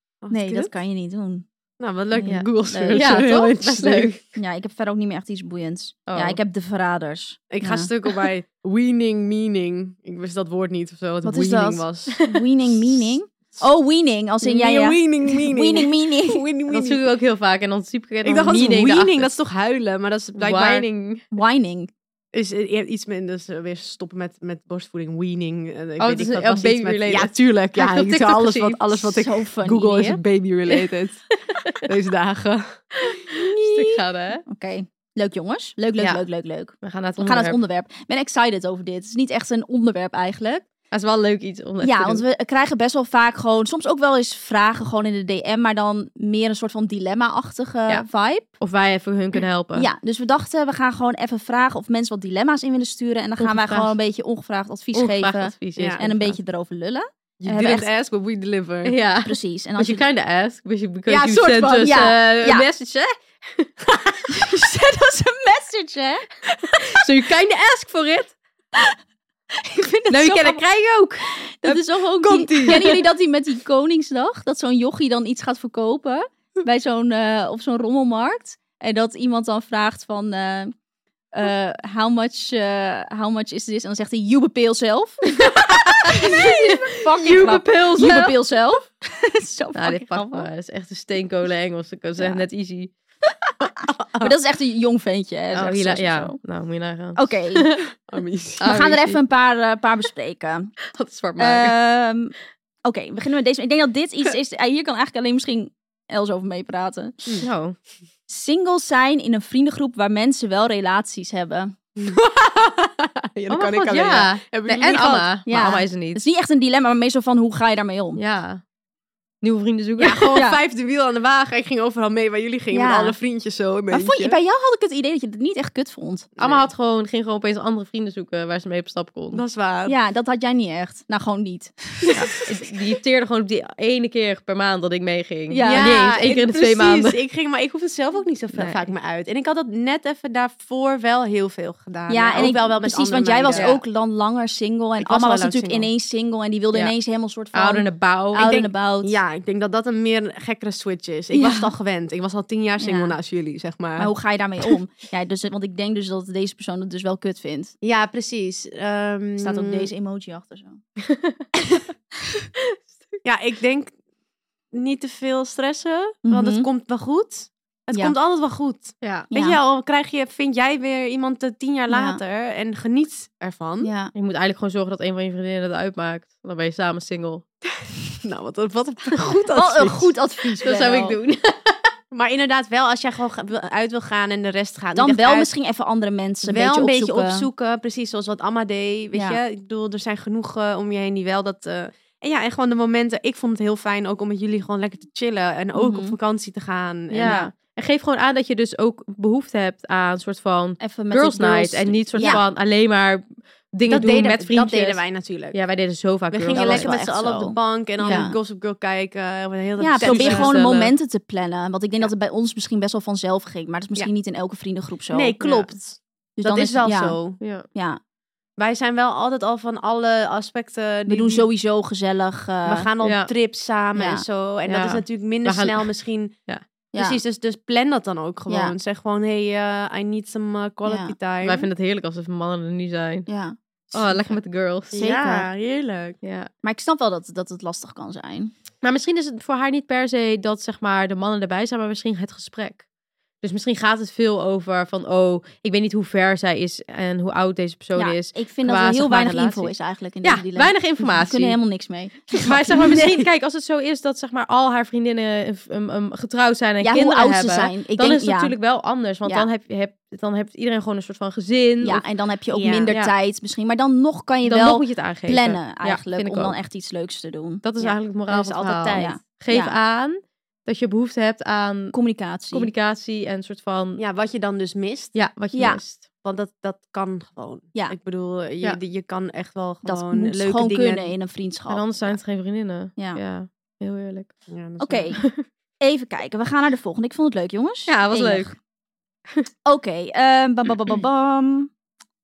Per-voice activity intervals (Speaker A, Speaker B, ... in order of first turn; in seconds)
Speaker A: 0.2-0.7, 1.8-4.2, 7.5-12.2, 14.4-17.0, 18.2-20.9, 22.3-32.8, 57.4-59.0, 61.1-62.0, 72.2-73.0, 93.9-94.3, 98.0-98.7, 112.0-115.3, 120.0-124.4, 126.3-126.7, 129.3-129.9, 135.6-143.7, 145.0-145.9, 148.3-154.1, 157.8-159.9, 163.2-163.9, 164.7-173.9, 178.2-180.1, 182.1-185.5, 186.4-197.4, 203.9-205.6, 206.3-210.6, 215.1-217.4, 218.6-221.4, 222.6-226.3, 226.9-231.7, 234.9-236.2, 262.5-262.9, 267.8-269.2, 274.0-275.1, 276.2-281.1, 284.5-285.2
Speaker B: 0.3-1.4, 2.1-3.3, 4.3-7.9, 11.2-16.4, 21.3-21.9, 29.1-30.2, 33.6-33.9, 34.5-40.6, 41.8-48.5, 49.7-57.9, 59.2-60.0, 61.8-62.6, 64.3-66.3, 69.6-70.6, 71.4-80.7, 81.3-90.5, 92.2-92.4, 94.2-96.4, 97.2-97.7, 98.6-100.7, 101.4-102.3, 102.8-107.2, 108.3-111.7, 115.5-118.2, 120.3-120.6, 122.7-123.2, 123.9-126.3, 129.9-132.3, 135.5-135.9, 142.1-149.2, 151.3-151.7, 152.8-153.2, 154.0-157.7, 159.4-160.8, 166.2-166.7, 169.3-169.6, 171.9-172.2, 173.8-174.1, 179.5-181.2, 184.9-187.5, 189.1-189.4, 195.7-196.2, 197.2-197.5, 200.8-202.4, 206.5-208.4, 209.8-215.7, 216.4-217.2, 217.7-218.0, 221.1-222.9, 223.9-224.2, 226.9-227.2, 228.5-228.7, 230.8-231.1, 233.3-233.6, 234.9-235.5, 236.6-238.5, 247.9-253.1, 256.8-258.5, 261.8-267.6, 268.9-269.8, 271.9-272.7, 275.5-275.8, 279.8-281.9, 284.8-285.2, 285.8-288.5, 289.6-291.7
Speaker C: 2.2-4.2, 6.1-6.4, 16.7-19.3, 20.4-21.2, 26.0-29.0, 31.5-31.8, 33.0-34.4, 36.0-36.2, 36.8-37.6, 40.9-42.2, 48.6-49.9, 53.4-53.9, 54.9-56.4, 58.8-64.3, 66.9-68.4, 70.1-71.8, 85.6-88.4, 89.7-92.9, 95.5-97.8, 98.6-99.2, 100.9-101.8, 107.4-107.8, 113.5-116.2, 118.2-118.6, 119.4-120.4, 126.4-129.4, 132.1-137.2, 138.5-138.9, 143.5-143.8, 147.5-148.5, 161.1-161.4, 169.0-169.3, 174.1-177.4, 180.6-181.9, 197.1-206.9, 210.0-210.9, 217.4-217.7, 223.0-223.3, 224.7-225.9, 231.4-233.3, 233.9-235.0, 236.2-236.5, 238.8-242.8, 243.4-251.6, 252.3-262.0, 264.4-266.6, 267.6-271.9, 272.5-274.0, 275.1-276.0, 281.7-284.3, 287.9-288.5